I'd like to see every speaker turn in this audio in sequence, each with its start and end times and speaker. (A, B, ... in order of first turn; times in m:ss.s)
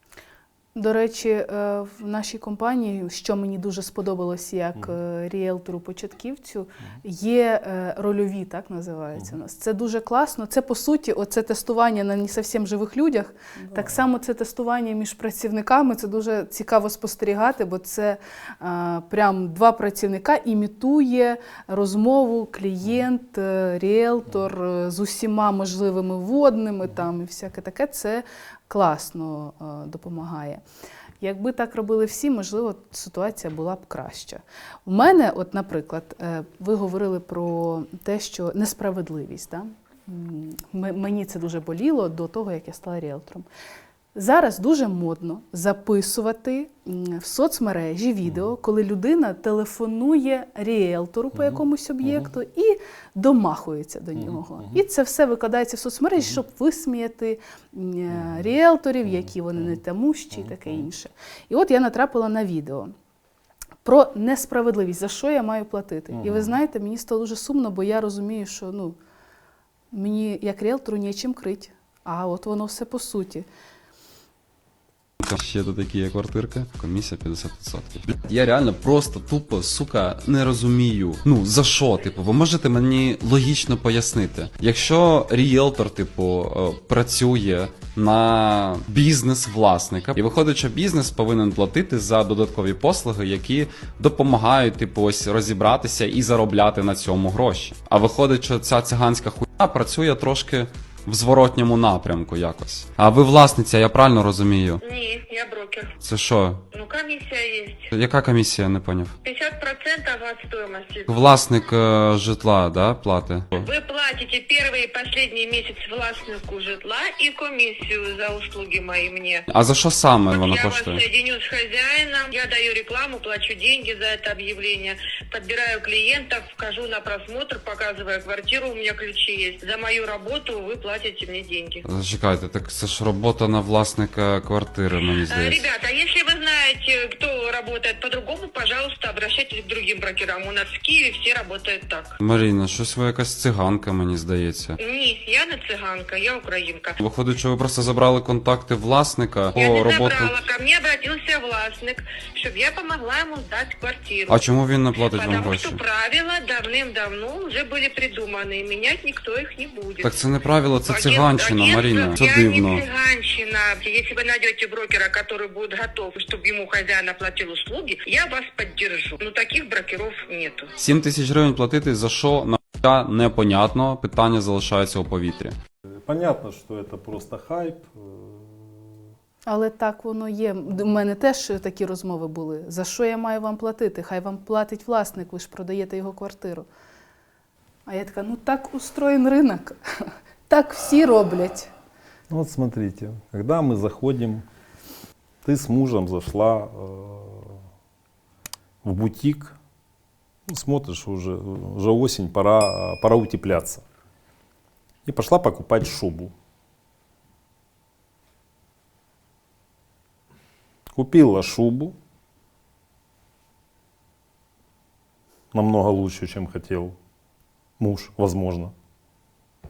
0:00.7-0:30.6 A
0:13.7-0:14.0 B
0:31.2-0:43.5 A
0:44.1-1:02.9 A
0:51.3-0:52.3 B
0:54.2-0:54.8 B
0:58.1-0:58.4 B
0:59.0-0:59.8 B
1:00.3-1:00.9 B
1:03.8-1:09.0 A
1:06.1-1:06.6 B
1:09.9-1:13.5 A
1:15.2-1:44.8 C
1:44.8-1:45.9 D
1:46.0-1:46.6 C
1:46.7-1:47.9 D
1:47.9-1:49.1 C
1:49.2-1:51.1 D
1:51.1-1:53.7 C
1:53.6-1:59.4 D
1:59.5-2:01.0 C
2:00.3-2:11.8 D
2:11.8-2:15.6 C
2:15.2-2:22.2 D
2:22.2-2:24.8 C
2:24.8-2:27.0 D
2:27.0-2:30.3 C
2:29.6-2:34.4 D
2:34.3-2:35.8 C
2:35.0-2:40.1 D
2:40.0-2:42.8 C
2:40.8-2:50.7 D
2:50.8-2:55.6 C
2:56.0-2:59.0 B
2:59.4-3:06.7 A
3:07.8-3:09.8 A
3:10.5-3:11.7 A
3:12.3-3:14.4 B
3:15.4-3:17.6 B
3:18.8-3:19.6 B
3:20.5-3:23.8 B
3:25.0-3:26.3 B
3:30.9-3:32.0 B
3:35.5-3:37.0 B
3:37.8-3:38.7 B